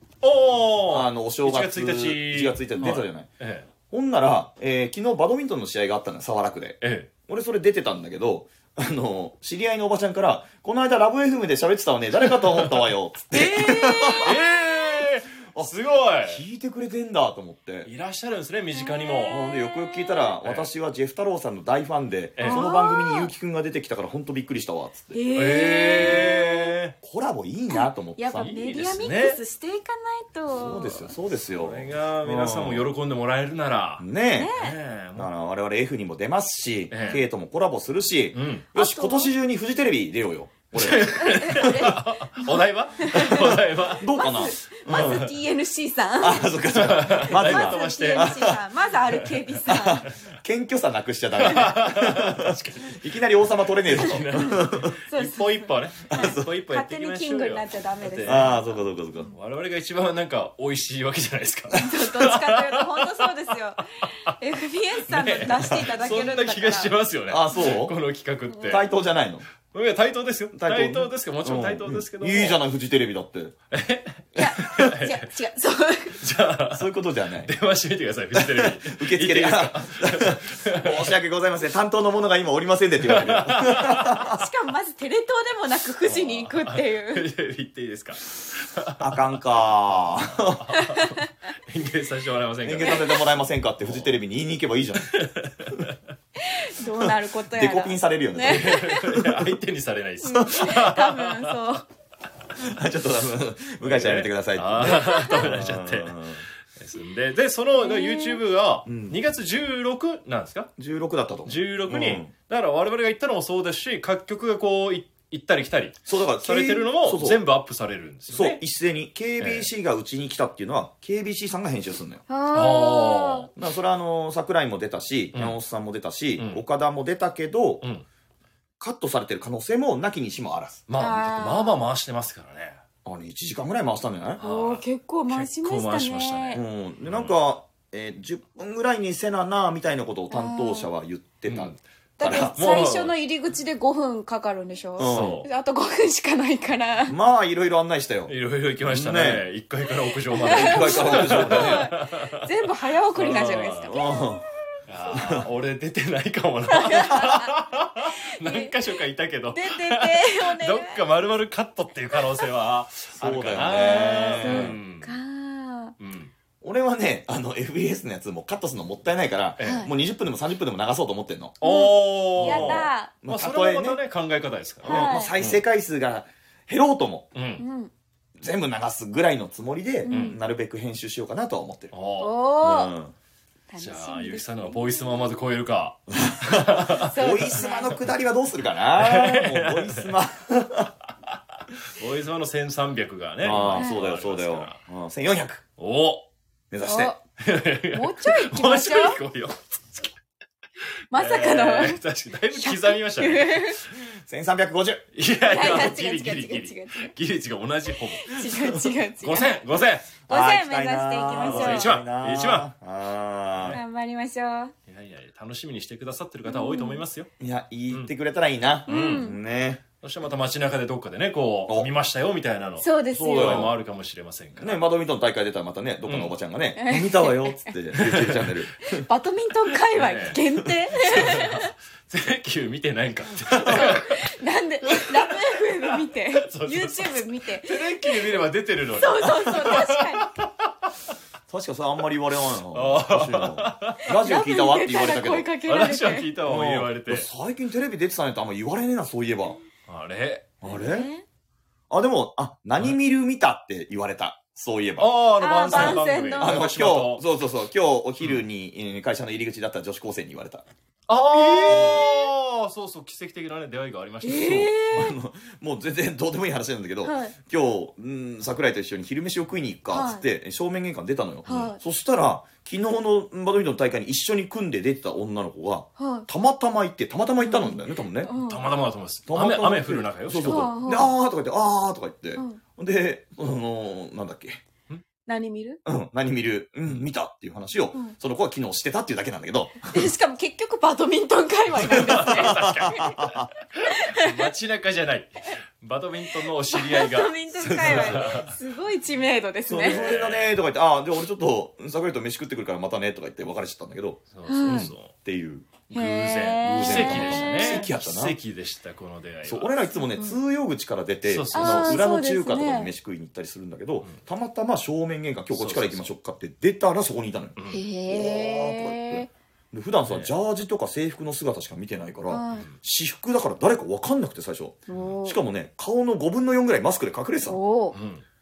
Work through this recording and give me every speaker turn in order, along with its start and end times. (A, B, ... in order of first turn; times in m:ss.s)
0:00.2-0:03.7 A
0:00.9-0:03.3 B
0:03.9-0:14.5 B
0:06.8-0:07.1 A
0:12.5-0:12.8 A
0:13.3-0:16.4 A
0:13.7-0:14.3 C
0:15.4-0:15.7 B
0:16.2-0:17.9 B
0:17.8-0:19.4 A
0:18.8-0:20.3 C
0:19.3-0:25.2 B
0:20.4-0:20.7 A
0:22.4-0:22.7 A
0:22.4-0:23.3 C
0:25.1-0:26.7 C
0:25.3-0:26.9 A
0:27.0-0:28.6 B
0:27.7-0:31.1 C
0:28.4-0:29.4 A
0:30.5-0:32.9 B
0:31.5-0:35.3 A
0:34.0-0:34.5 B
0:34.4-0:34.8 C
0:35.2-0:42.0 B
0:36.9-0:37.2 A
0:38.3-0:38.7 A
0:38.8-0:39.3 C
0:40.7-0:45.3 A
0:41.2-0:43.4 C
0:43.1-0:45.3 B
0:44.1-0:50.1 C
0:46.2-0:48.6 B
0:46.7-0:48.5 A
0:49.1-0:49.6 A
0:49.7-0:55.0 B
0:51.4-0:53.0 A
0:53.7-0:58.6 A
0:54.3-0:58.5 C
0:56.1-0:56.5 B
0:58.2-0:59.3 B
0:59.3-1:03.3 A
1:01.7-1:07.0 C
1:05.1-1:08.9 A
1:07.3-1:08.0 B
1:08.7-1:09.5 B
1:09.7-1:12.6 A
1:10.5-1:13.6 B
1:13.7-1:15.3 A
1:14.4-1:16.2 C
1:16.2-1:16.9 A
1:16.7-1:17.5 B
1:17.4-1:21.1 A
1:18.3-1:24.4 B
1:23.0-1:24.1 A
1:24.2-1:27.3 C
1:26.0-1:29.4 A
1:29.0-1:30.7 B
1:30.0-1:33.3 A
1:30.7-1:31.3 C
1:32.6-1:35.2 B
1:33.8-1:34.1 A
1:35.0-1:36.0 A
1:36.4-1:39.3 C
1:37.0-1:39.0 B
1:38.5-1:41.6 A
1:40.2-1:41.9 C
1:42.6-1:46.4 B
1:43.8-1:50.7 A
1:45.0-1:45.4 C
1:47.8-1:48.4 C
1:48.9-1:49.2 B
1:50.8-1:52.3 B
1:51.5-1:58.6 A
1:56.1-1:57.4 B
1:58.3-2:02.2 B
1:59.4-1:59.7 A
2:02.3-2:03.5 C
2:02.5-2:03.5 A
2:03.6-2:07.8 B
2:05.3-2:05.6 A
2:06.4-2:06.6 A
2:08.8-2:10.8 B
2:10.9-2:12.8 A
2:11.0-2:11.8 C
2:13.0-2:14.4 B
2:14.4-2:16.6 C
2:14.4-2:17.3 A
2:16.5-2:22.6 B
2:20.3-2:20.9 C
2:21.5-2:23.1 A
2:22.2-2:27.2 C
2:25.0-2:25.5 B
2:25.1-2:25.5 A
2:27.1-2:28.3 B
2:28.3-2:32.5 A
2:28.9-2:29.5 B
2:30.3-2:34.2 C
2:30.5-2:31.9 B
2:33.2-2:34.0 A
2:33.9-2:34.5 B
2:34.9-2:45.2 A
2:35.1-2:35.5 B
2:36.7-2:38.8 C
2:39.5-2:41.0 C
2:42.1-2:42.4 C
2:43.2-2:44.8 B
2:43.7-2:46.0 C
2:46.0-2:46.3 A
2:46.6-2:51.6 B
2:49.6-2:49.9 A
2:49.6-2:49.9 C
2:51.6-2:53.1 C
2:51.6-2:55.6 A
2:52.4-2:54.0 B
2:54.8-2:55.4 C
2:54.9-2:57.3 B
2:57.4-2:57.6 A
2:57.6-2:57.9 C
2:58.4-3:01.9 B
3:00.1-3:00.4 A
3:00.1-3:00.4 C
3:01.9-3:02.4 A
3:02.2-3:02.9 C
3:02.6-3:03.1 B
3:03.7-3:05.4 C
3:03.8-3:07.7 A
3:06.1-3:10.9 B
3:07.1-3:08.0 C
3:09.0-3:10.2 A
3:11.9-3:14.8 A
3:13.4-3:15.6 B
3:13.7-3:14.0 C
3:15.8-3:16.3 A
3:16.7-3:17.1 B
3:16.8-3:17.2 C
3:17.4-3:20.1 A
3:17.9-3:19.2 C
3:21.1-3:22.0 C
3:21.1-3:23.8 A
3:22.6-3:23.8 C
3:24.1-3:25.1 B
3:25.1-3:28.7 A
3:25.5-3:27.1 C
3:28.2-3:29.5 C
3:29.2-3:30.1 A
3:30.3-3:33.8 B
3:30.3-3:32.0 C
3:31.4-3:32.7 A
3:33.7-3:34.7 C
3:34.9-3:37.3 A
3:36.5-3:37.0 C
3:37.4-3:39.8 B
3:38.9-3:39.3 A
3:38.9-3:39.4 C
3:40.0-3:44.8 A
3:42.8-3:43.7 C
3:43.1-3:43.8 B
3:44.6-3:49.1 B
3:46.1-3:46.3 A
3:46.8-3:47.4 C
3:48.0-3:48.5 A
3:49.0-3:51.7 C
3:49.9-3:50.4 A
3:50.9-3:54.4 A
3:53.7-3:58.4 C
3:54.9-3:55.4 A
3:56.3-4:00.5 A
3:59.0-4:00.3 C
4:01.5-4:05.5 B
4:02.7-4:04.1 A
4:04.2-4:06.3 C
4:05.7-4:07.3 A
4:06.4-4:09.6 B
4:09.9-4:10.6 A
4:10.6-4:11.1 B
4:10.6-4:11.2 C
4:11.9-4:15.1 B
4:15.0-4:17.2 A
4:15.4-4:16.6 C
4:15.7-4:20.6 B
4:21.1-4:25.1 A
4:21.3-4:22.2 C
4:21.6-4:22.1 B
4:24.2-4:25.1 C
4:24.9-4:38.3 B
4:27.0-4:27.4 C
4:29.9-4:30.2 C
4:31.5-4:31.8 C
4:36.0-4:36.3 C
4:37.4-4:38.7 C
4:38.3-4:40.7 A
4:39.3-4:44.6 B
4:40.5-4:41.1 C
4:45.3-4:45.8 C
4:45.8-4:50.1 B
4:49.9-4:53.2 C
4:51.8-4:58.5 A
4:51.8-4:53.5 B
4:53.8-4:54.5 C
4:56.7-5:00.1 C
4:57.6-4:58.4 B
4:59.7-5:05.7 B
4:59.8-5:00.5 A
5:04.3-5:05.1 A
5:04.5-5:04.9 C
5:05.9-5:09.7 A
5:05.9-5:07.9 C
5:06.6-5:08.4 B
5:09.4-5:27.6 B
5:11.3-5:12.0 A
5:11.5-5:12.9 C
5:15.5-5:16.1 A
5:17.6-5:17.8 A
5:17.7-5:19.3 C
5:22.3-5:22.7 C
5:24.9-5:25.4 C
5:27.5-5:28.0 C
5:27.9-5:28.2 A